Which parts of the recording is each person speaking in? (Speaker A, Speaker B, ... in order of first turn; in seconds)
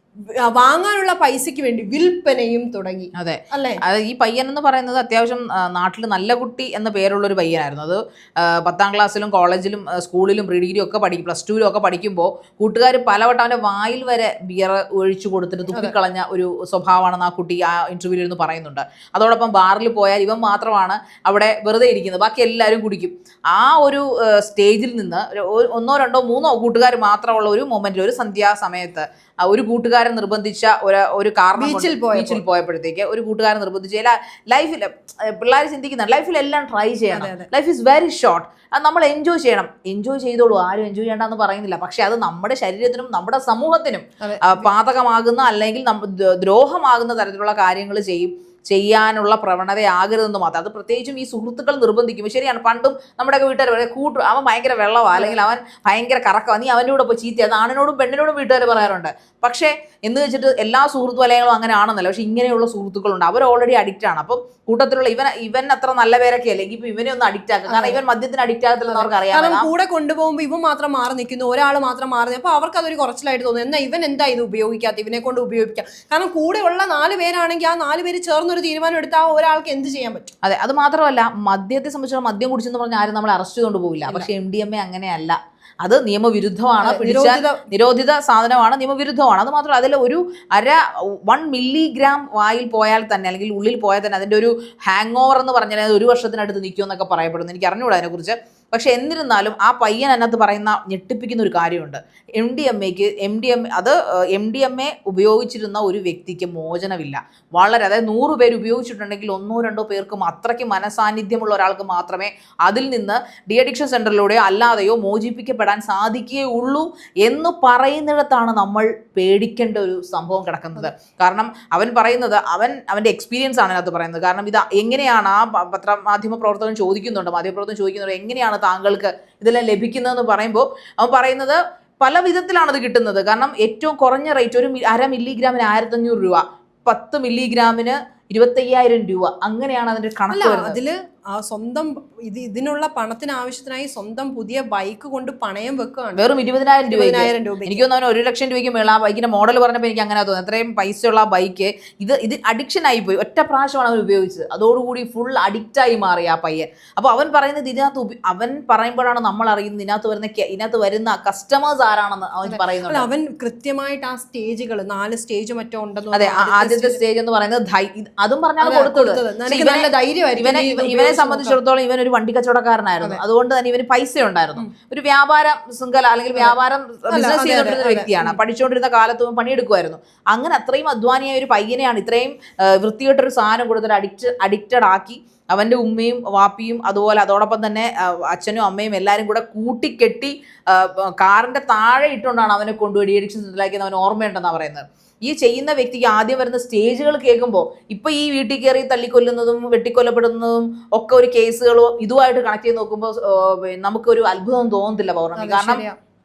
Speaker A: 0.3-3.8, 31.6-32.4, 37.1-37.5, 44.2-44.7, 55.1-55.5, 67.7-68.0, 68.9-80.3, 86.8-87.7, 140.3-146.3, 146.9-147.9, 162.4-167.0, 168.6-171.6, 177.1-178.4, 205.4-206.0
Speaker B: 3.2-69.7, 80.4-140.8, 146.2-163.1, 166.1-205.8